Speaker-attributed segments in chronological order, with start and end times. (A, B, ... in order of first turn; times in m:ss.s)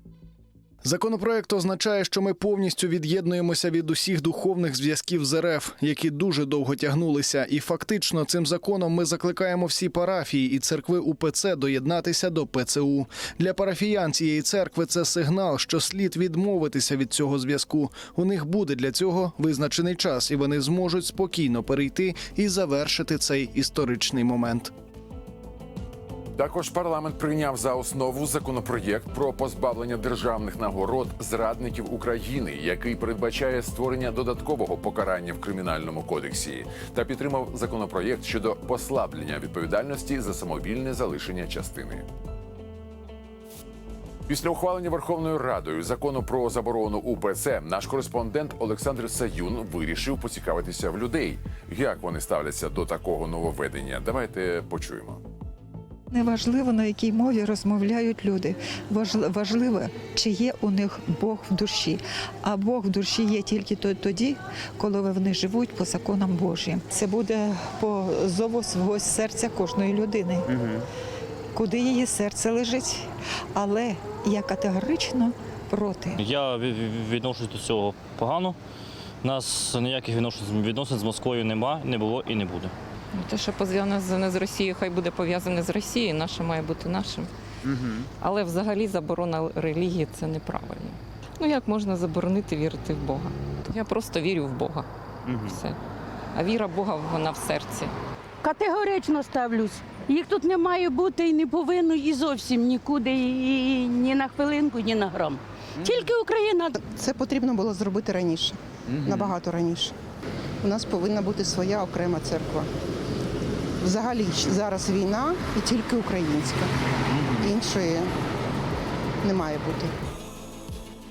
0:00.8-0:24.7 A
0:26.4-0:42.1 B
0:44.3-0:55.2 B
0:56.1-1:10.5 C
1:11.5-1:16.2 C
1:16.2-1:18.6 D
1:19.2-1:22.7 D
1:23.1-1:27.3 E
1:28.2-1:34.9 E
1:35.4-1:35.8 E
1:36.3-1:37.9 E
1:38.4-1:46.7 F
1:46.8-1:49.9 G
1:50.6-1:52.7 G
1:53.8-1:56.7 G
1:57.4-1:58.1 G
1:59.2-1:59.9 G